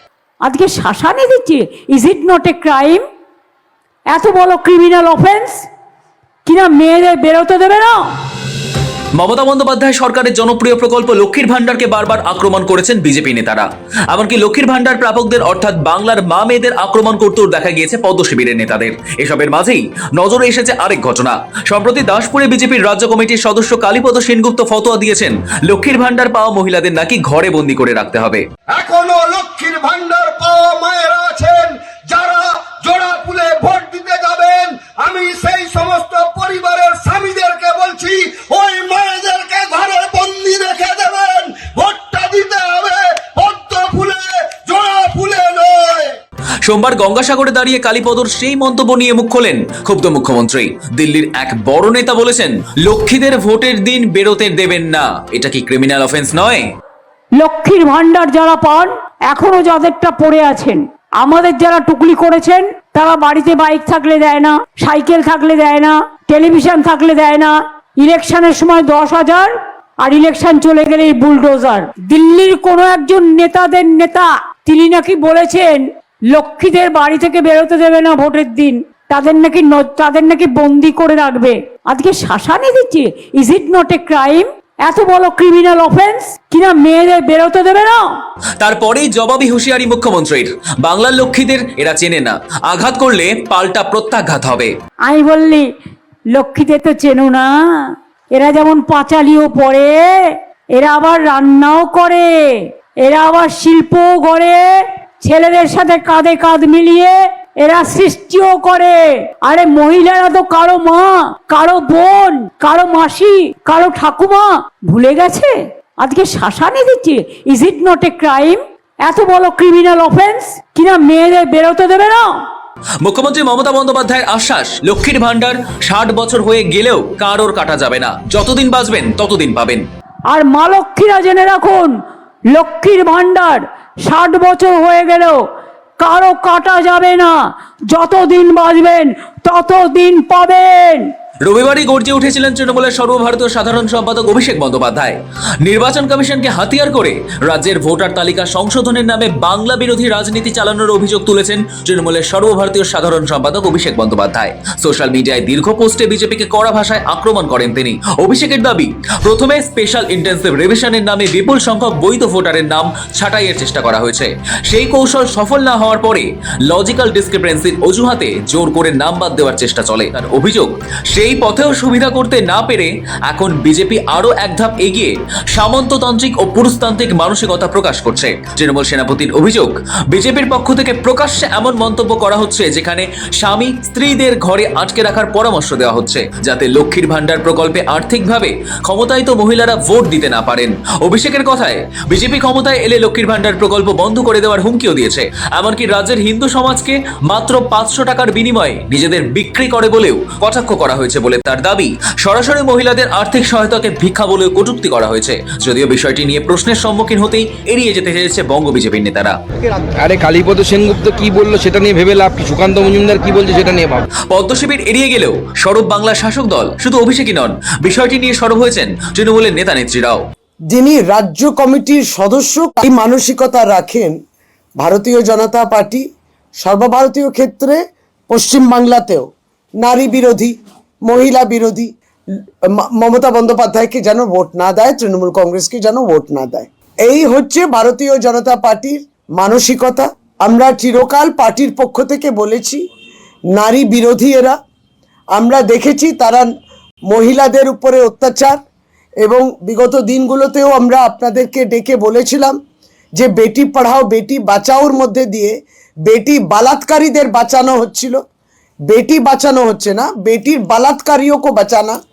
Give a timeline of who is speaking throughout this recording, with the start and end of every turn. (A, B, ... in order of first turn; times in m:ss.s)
0:00.4-0:03.0 A
0:04.1-0:05.6 A
0:06.4-0:08.0 A
0:09.2-0:28.4 B
0:28.7-0:46.1 C
0:46.6-0:56.6 B
0:57.4-1:28.0 A
1:28.6-1:34.7 B
1:35.0-1:35.7 A
1:36.3-2:02.3 A
2:03.0-2:09.8 B
2:10.3-2:11.9 A
2:12.5-2:15.4 A
2:16.0-2:17.3 A
2:17.9-2:21.0 A
2:21.4-3:29.4 B
3:29.8-3:34.0 D
3:34.3-3:40.2 B
3:40.7-3:44.1 E
3:44.8-3:46.0 E
3:46.6-3:47.8 E
3:48.3-3:49.3 E
3:49.8-3:50.5 E
3:51.0-3:51.9 E
3:52.7-4:02.8 E
4:03.5-4:04.6 E
4:05.3-4:06.5 E
4:07.1-4:08.6 E
4:09.2-4:12.6 E
4:13.2-4:15.5 E
4:16.0-4:18.2 E
4:18.9-4:22.0 E